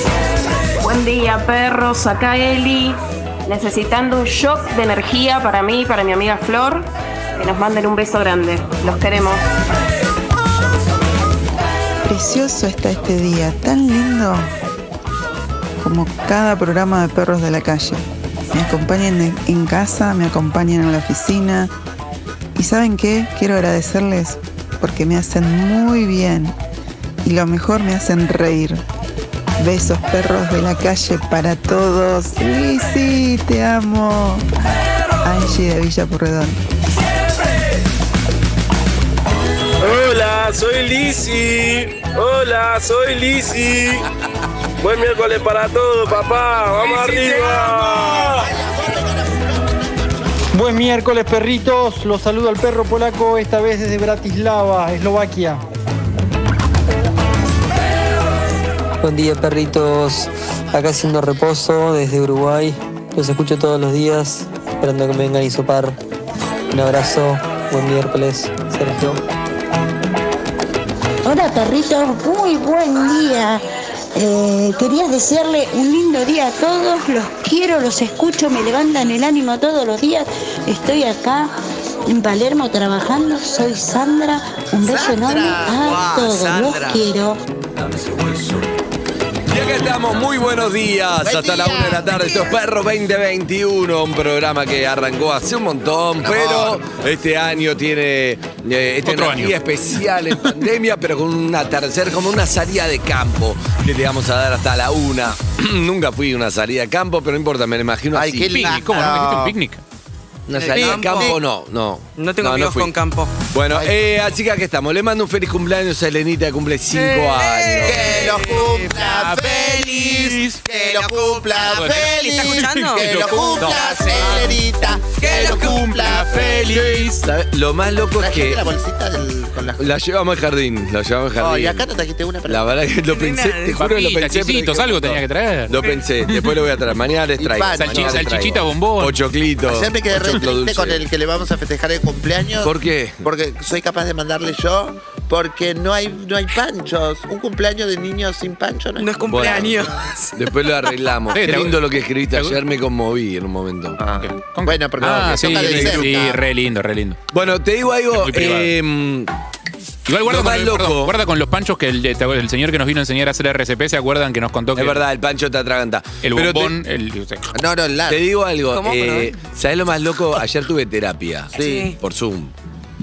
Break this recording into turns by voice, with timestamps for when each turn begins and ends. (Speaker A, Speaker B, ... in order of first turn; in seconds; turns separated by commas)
Speaker A: 0.8-9.4, Speaker B: 12.0-14.5, Speaker B: 15.8-21.7, Speaker B: 22.5-26.5, Speaker B: 27.2-28.8, Speaker B: 29.6-34.4, Speaker B: 35.2-36.6, Speaker C: 39.8-44.0, Speaker C: 44.8-48.5, Speaker D: 46.8-50.4, Speaker E: 50.5-55.6, Speaker F: 59.0-66.0, Speaker F: 66.7-69.2, Speaker G: 71.2-73.6, Speaker G: 74.1-81.5, Speaker G: 82.1-87.4, Speaker D: 84.8-85.8, Speaker H: 85.8-87.0, Speaker I: 89.5-108.6, Speaker D: 91.2-92.2, Speaker H: 92.2-92.5, Speaker D: 96.3-96.8, Speaker J: 99.0-99.5, Speaker D: 108.1-109.6, Speaker J: 108.5-109.8, Speaker I: 110.5-112.9, Speaker H: 110.5-111.4, Speaker D: 110.7-111.4, Speaker H: 112.2-113.3, Speaker I: 113.5-118.6, Speaker H: 116.9-124.5, Speaker D: 117.8-127.1, Speaker J: 119.0-120.6, Speaker J: 121.7-123.6, Speaker I: 123.5-124.1, Speaker H: 125.2-126.7, Speaker J: 125.5-127.2, Speaker I: 126.7-128.7, Speaker D: 128.2-129.9, Speaker I: 129.8-131.9, Speaker D: 131.4-132.7, Speaker I: 132.5-141.1, Speaker H: 133.1-133.8, Speaker J: 133.8-136.5, Speaker D: 137.4-138.6, Speaker J: 137.6-139.2, Speaker D: 139.7-150.1, Speaker I: 142.6-143.2, Speaker H: 149.0-150.4, Speaker I: 149.3-154.0, Speaker J: 151.3-151.8, Speaker D: 154.0-156.4, Speaker J: 154.2-157.2, Speaker I: 155.4-156.2, Speaker I: 157.3-159.3, Speaker J: 158.1-158.7, Speaker J: 160.1-165.0, Speaker I: 160.2-161.2, Speaker I: 164.8-166.8, Speaker J: 166.2-167.5, Speaker D: 167.5-168.2, Speaker I: 168.1-172.5, Speaker H: 168.7-169.3, Speaker H: 171.5-172.0, Speaker D: 171.6-171.9